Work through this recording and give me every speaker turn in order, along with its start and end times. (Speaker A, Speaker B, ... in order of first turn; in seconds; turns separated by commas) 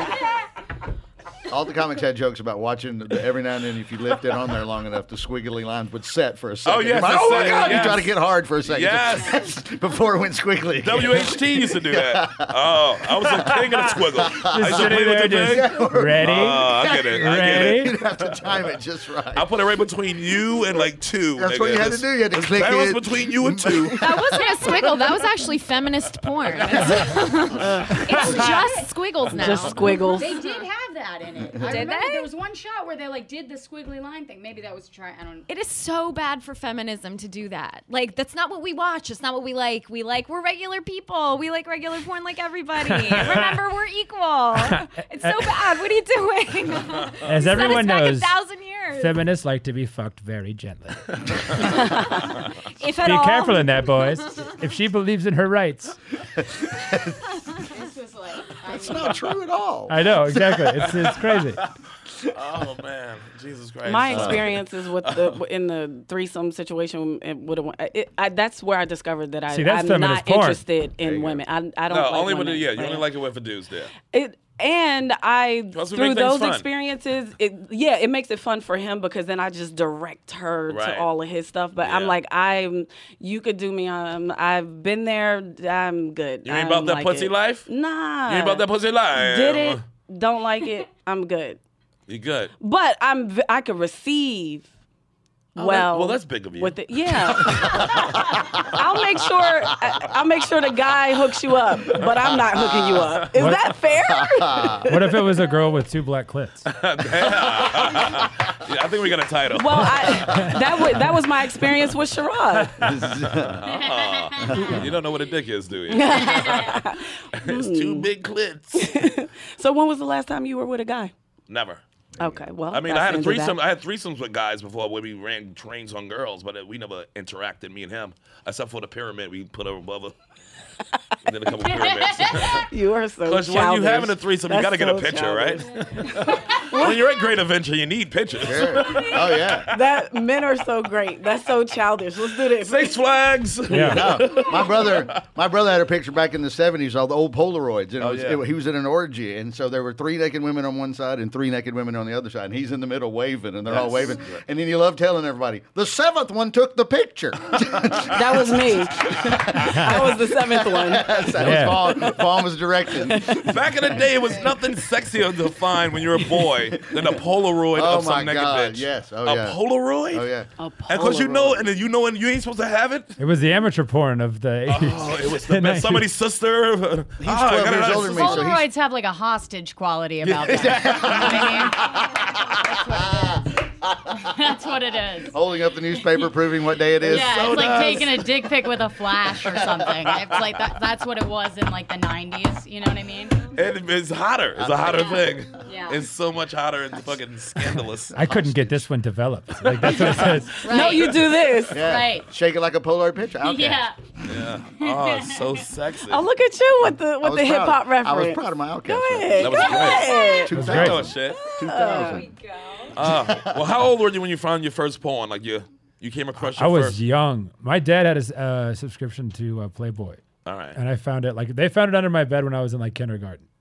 Speaker A: 1.5-12.5, Speaker B: 6.6-8.1, Speaker B: 8.7-9.4, Speaker B: 10.8-17.9, Speaker A: 13.2-19.5, Speaker C: 14.4-17.9, Speaker B: 19.3-24.0, Speaker A: 21.4-24.4, Speaker D: 23.9-30.6, Speaker E: 27.6-27.9, Speaker F: 28.1-28.9, Speaker E: 29.4-30.3, Speaker F: 29.6-35.5, Speaker D: 31.6-32.3, Speaker D: 35.5-49.2, Speaker C: 42.8-43.6, Speaker C: 44.6-45.6, Speaker C: 47.2-48.4, Speaker C: 48.9-52.3, Speaker E: 51.8-52.1, Speaker D: 52.3-54.5, Speaker C: 53.0-56.0, Speaker A: 56.7-57.1, Speaker F: 57.7-59.2, Speaker A: 58.7-61.0, Speaker C: 59.9-61.6, Speaker B: 60.8-61.7, Speaker B: 62.3-65.4, Speaker E: 63.8-73.0, Speaker A: 64.1-64.5, Speaker C: 69.5-70.6, Speaker A: 71.0-71.4, Speaker B: 71.9-73.9, Speaker E: 74.1-91.6, Speaker B: 75.7-76.7, Speaker B: 80.7-81.1, Speaker B: 81.8-82.1, Speaker B: 86.4-87.7, Speaker B: 88.3-89.8, Speaker B: 92.1-92.5, Speaker E: 92.6-94.7, Speaker E: 95.5-105.2, Speaker B: 95.5-98.5, Speaker A: 97.9-98.4, Speaker C: 103.3-103.7, Speaker A: 104.0-104.8, Speaker C: 104.8-106.7, Speaker B: 106.7-110.2, Speaker A: 107.4-107.9, Speaker E: 109.5-112.8, Speaker C: 110.3-110.6, Speaker A: 112.8-113.7, Speaker B: 113.0-116.8, Speaker F: 113.9-114.7, Speaker A: 114.5-114.9, Speaker E: 115.9-118.1, Speaker F: 116.1-116.8, Speaker B: 117.3-119.1, Speaker E: 118.7-121.1, Speaker B: 121.5-121.8, Speaker A: 122.2-122.4, Speaker E: 122.2-123.6, Speaker B: 122.7-130.1, Speaker B: 131.2-132.7, Speaker F: 132.0-132.3, Speaker E: 132.5-137.1, Speaker B: 133.2-139.6, Speaker A: 138.4-139.7, Speaker E: 139.6-142.9, Speaker B: 142.6-145.2, Speaker C: 143.7-144.2, Speaker A: 143.8-163.5, Speaker B: 148.0-148.4, Speaker B: 153.7-154.4, Speaker E: 158.1-161.2, Speaker C: 161.4-161.9, Speaker E: 163.1-163.5, Speaker B: 163.3-170.3, Speaker A: 167.7-169.6, Speaker A: 170.1-170.5, Speaker E: 170.6-171.6, Speaker B: 170.9-173.2, Speaker C: 173.2-176.1, Speaker B: 174.7-178.5, Speaker A: 177.2-178.7, Speaker F: 178.0-185.3, Speaker B: 180.2-181.7, Speaker A: 180.4-183.4, Speaker A: 185.3-187.7, Speaker B: 187.0-188.4, Speaker F: 187.0-193.5, Speaker B: 193.5-198.3, Speaker A: 194.6-195.3, Speaker F: 195.6-196.0, Speaker A: 198.1-198.8, Speaker C: 198.1-200.7, Speaker B: 199.6-200.5, Speaker E: 200.6-201.8, Speaker F: 200.6-202.3, Speaker A: 201.7-203.9, Speaker F: 203.4-204.0, Speaker B: 204.2-206.2, Speaker F: 204.8-205.6, Speaker E: 206.1-210.5, Speaker A: 207.2-209.6, Speaker B: 209.3-211.4, Speaker F: 209.9-210.2, Speaker A: 210.4-212.3, Speaker C: 210.5-211.1, Speaker E: 211.3-212.2, Speaker D: 212.0-212.9, Speaker F: 212.4-212.9, Speaker B: 212.9-217.0, Speaker A: 213.0-213.7, Speaker C: 216.4-220.2, Speaker B: 220.4-220.8, Speaker C: 220.7-223.4